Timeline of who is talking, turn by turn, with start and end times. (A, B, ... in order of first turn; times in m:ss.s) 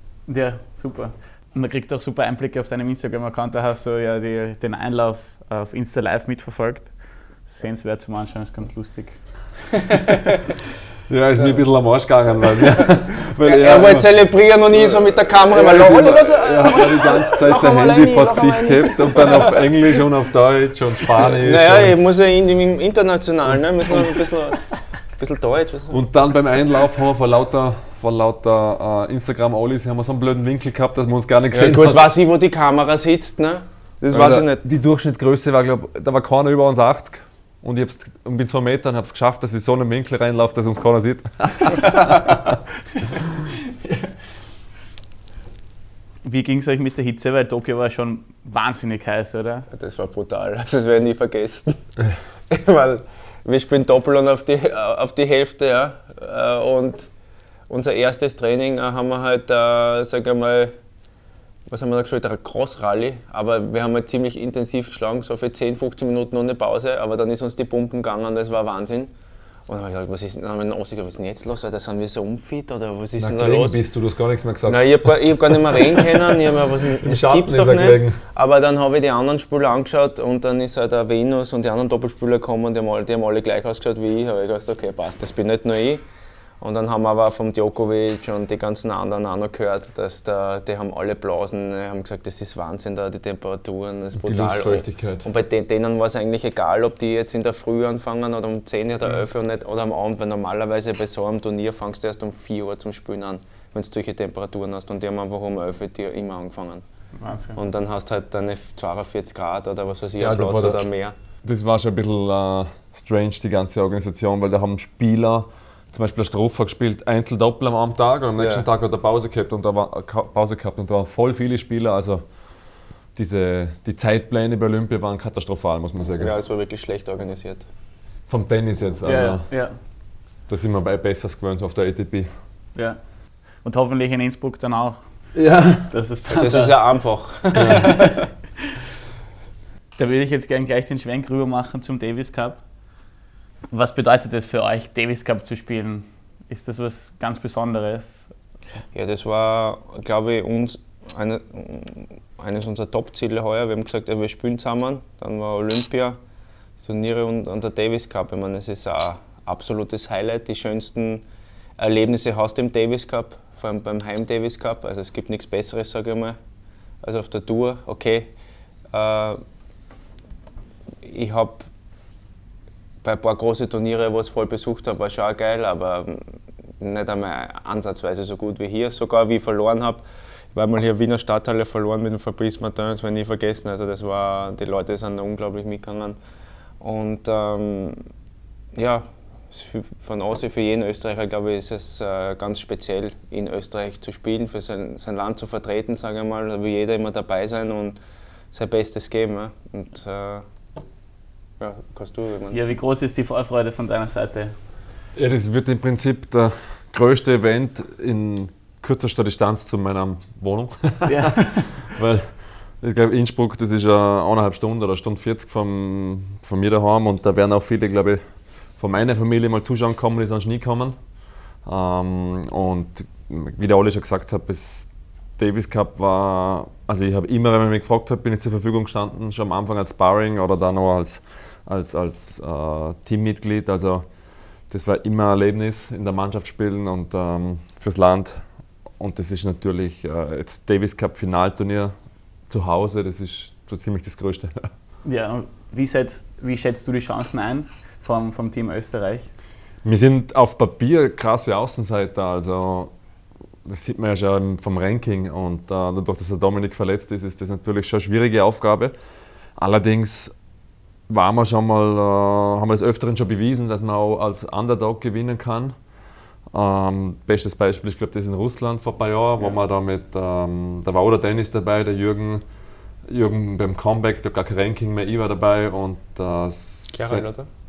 0:00.3-0:09.6 A
0:10.1-0:10.4 B
0:11.1-0:14.1 C
0:13.4-0:19.8 B
0:15.5-0:22.0 C
0:21.2-0:24.6 B
0:25.2-0:26.1 B
0:25.9-0:32.1 C
0:31.5-0:34.6 B
0:34.1-0:42.6 C
0:46.2-0:49.7 A
0:49.7-0:51.9 B
0:52.5-0:57.1 B
0:57.7-1:00.7 B
1:01.7-1:09.1 B
1:09.7-1:13.8 B
1:13.2-1:16.3 C
1:14.6-1:26.0 B
1:17.0-1:18.2 C
1:26.6-1:46.8 B
1:34.2-1:35.2 C
1:47.2-1:47.6 A
1:47.6-1:51.1 B
1:50.2-1:50.8 C
1:51.4-2:02.3 C
1:58.4-1:58.6 B
2:03.1-2:06.3 C
2:06.2-2:07.7 B
2:08.3-2:09.5 C
2:09.0-2:09.8 A
2:10.5-2:12.3 C
2:13.6-2:18.2 A
2:15.3-2:15.9 C
2:16.3-2:18.1 B
2:17.6-2:17.8 C
2:20.0-2:22.6 A
2:23.7-2:28.3 A
2:28.9-2:36.2 B
2:36.8-2:41.2 B
2:41.8-2:46.4 B
2:47.0-2:48.3 B
2:48.9-2:49.4 B
2:51.0-2:51.7 B
2:53.0-3:06.2 B
3:06.8-3:08.0 B
3:08.7-3:18.0 B
3:18.5-3:20.4 B
3:21.6-3:22.6 B
3:22.5-3:24.6 A
3:25.1-3:38.2 C
3:31.1-3:31.8 A
3:38.8-3:40.9 C
3:41.6-3:44.8 C
3:45.4-3:54.0 C
3:54.7-3:58.4 C
3:59.0-4:01.9 C
4:02.5-4:04.7 C
4:05.0-4:09.3 A
4:09.8-4:12.9 C
4:13.6-4:18.9 C
4:19.6-4:20.3 C
4:21.1-4:25.7 C
4:26.5-4:32.4 C
4:33.0-4:37.3 C
4:36.9-4:37.5 B